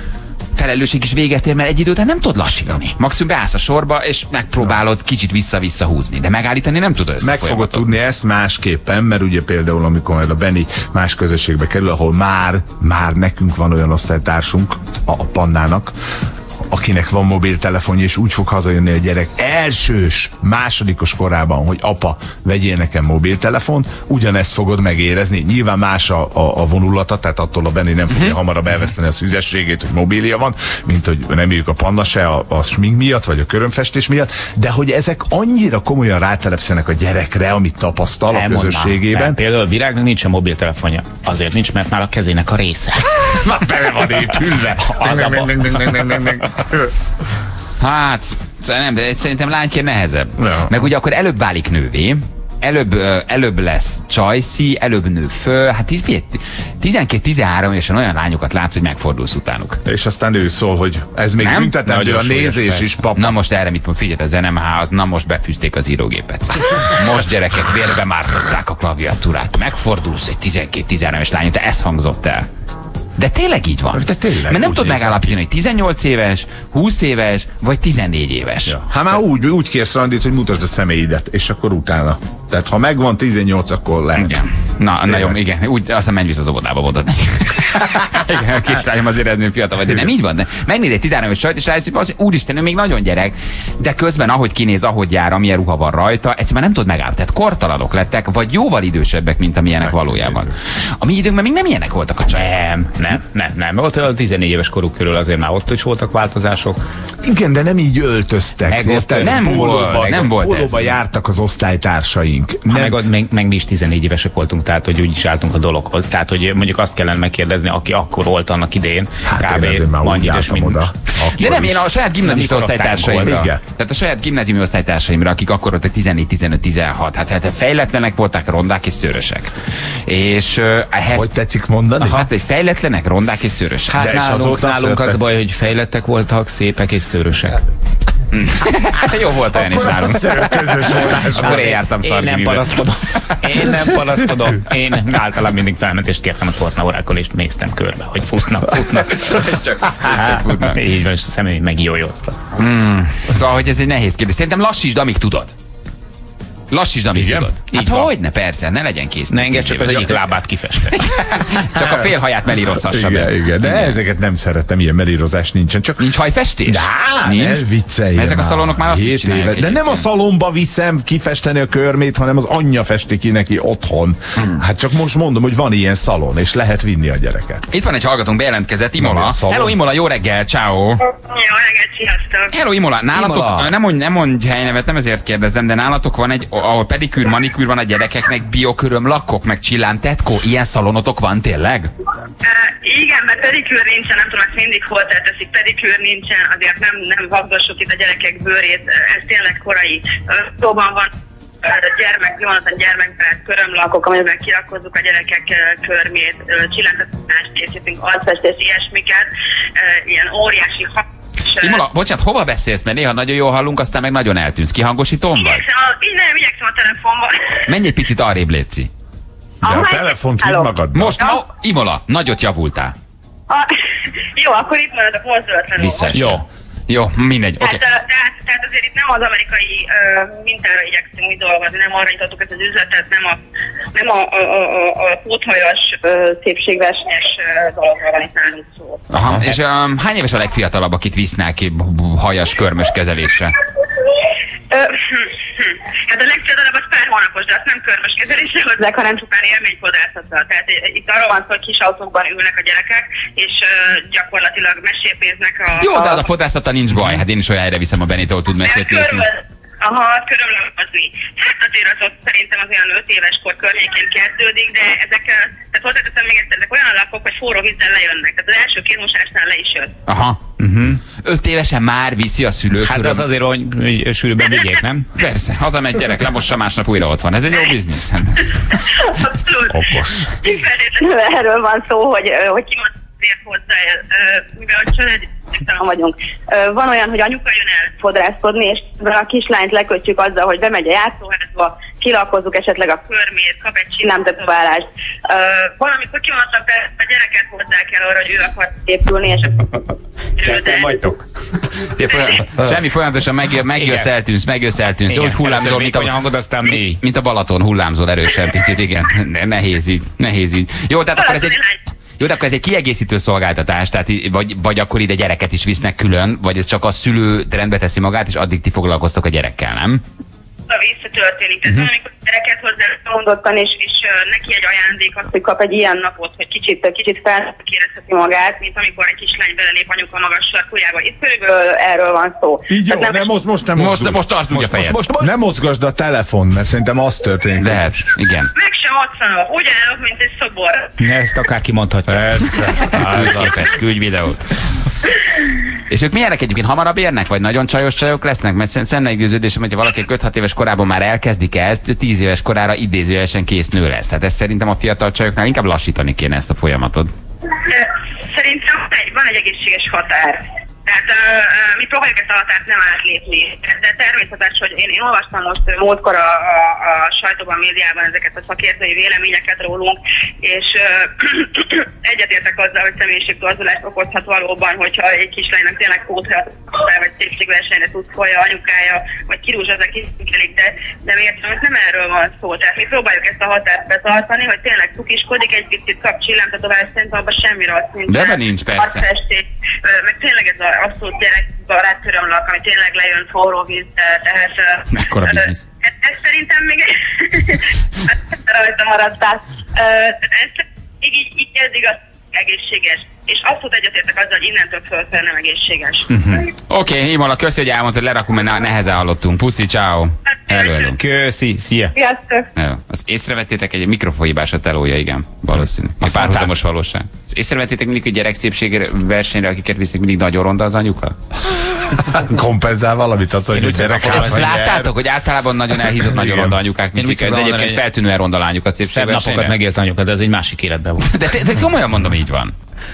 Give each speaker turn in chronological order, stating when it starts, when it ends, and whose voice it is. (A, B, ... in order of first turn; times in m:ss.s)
0:00.6-0:07.8 A
0:07.2-0:15.9 B
0:16.7-0:39.4 B
0:38.3-0:43.4 C
0:43.2-0:46.9 B
0:44.2-0:46.2 C
0:47.8-0:59.8 A
0:50.4-0:50.7 B
0:59.8-1:03.4 B
1:01.4-1:01.8 A
1:01.8-1:03.0 C
1:03.2-1:12.5 A
1:13.2-1:18.8 A
1:13.9-1:15.3 B
1:18.7-1:24.4 B
1:24.2-1:42.5 A
1:25.0-1:25.4 B
1:39.8-1:40.5 B
1:42.3-1:46.8 C
1:47.2-1:53.0 B
1:48.7-1:50.2 C
1:49.2-1:50.8 A
1:52.7-2:00.9 C
1:59.2-2:01.8 B
2:01.4-2:09.5 A
2:02.2-2:03.4 C
2:03.2-2:03.6 B
2:10.1-2:11.3 A
2:11.1-2:12.3 B
2:12.0-2:14.0 A
2:13.9-2:17.6 C
2:13.9-2:15.2 B
2:18.3-2:23.7 A
2:19.5-2:21.7 B
2:21.4-2:29.2 C
2:29.0-2:30.8 A
2:30.6-2:32.4 C
2:32.6-2:35.5 A
2:36.7-2:40.2 A
2:37.1-2:37.5 B
2:37.7-2:38.1 C
2:39.3-2:41.0 C
2:39.8-2:40.2 B
2:40.9-2:44.0 A
2:41.7-2:42.1 B
2:42.7-2:46.0 B
2:46.0-2:50.1 A
2:46.6-2:57.7 B
2:57.7-3:01.0 A
2:59.0-2:59.8 B
3:01.1-3:02.5 D
3:02.5-3:11.9 A
3:03.2-3:03.7 C
3:12.4-3:21.1 D
3:21.6-3:31.8 D
3:31.6-3:35.6 A
3:35.4-3:37.6 D
3:37.7-3:38.9 A
3:39.6-3:41.2 B
3:39.6-3:41.4 D
3:40.9-3:42.9 A
3:44.3-3:46.1 D
3:45.8-3:47.8 A
3:46.1-3:46.4 C
3:47.6-3:53.4 D
3:53.9-3:59.0 D
3:59.1-4:03.6 A
3:59.1-3:59.5 B
4:04.7-4:16.3 D
4:15.7-4:19.3 A
4:18.6-4:29.9 D
4:30.1-4:30.4 A
4:30.6-4:31.0 C
4:31.2-4:33.3 A
4:32.8-4:35.1 C
4:35.2-4:38.8 A
4:38.7-4:59.8 D
4:39.7-4:40.4 B
5:00.4-5:01.1 D
5:00.4-5:01.2 C
5:01.8-5:11.6 A
5:02.1-5:02.4 D
5:03.7-5:04.1 C
5:05.1-5:07.0 C
5:11.1-5:11.8 D
5:12.2-5:20.0 A
5:20.7-5:33.2 D
5:32.7-5:34.2 B
5:33.8-5:35.0 A
5:34.5-5:35.3 C
5:35.2-5:37.9 B
5:37.6-5:38.5 A
5:38.6-5:40.9 D
5:41.0-5:42.6 C
5:42.1-5:43.7 B
5:42.9-5:44.6 A
5:45.9-5:57.1 A
5:57.6-6:46.1 D
6:28.1-6:29.1 A
6:35.0-6:35.5 A
6:46.1-6:46.5 C
6:46.7-6:51.0 A
6:50.5-6:50.9 D
6:50.9-6:52.0 C
6:51.9-6:52.5 D
6:52.6-7:01.5 A
6:56.0-6:56.5 C
7:02.0-7:04.9 B
7:03.5-7:04.5 C
7:04.1-7:09.5 A
7:05.8-7:06.6 B
7:07.0-7:07.8 C
7:08.8-7:11.1 C
7:11.0-7:12.5 A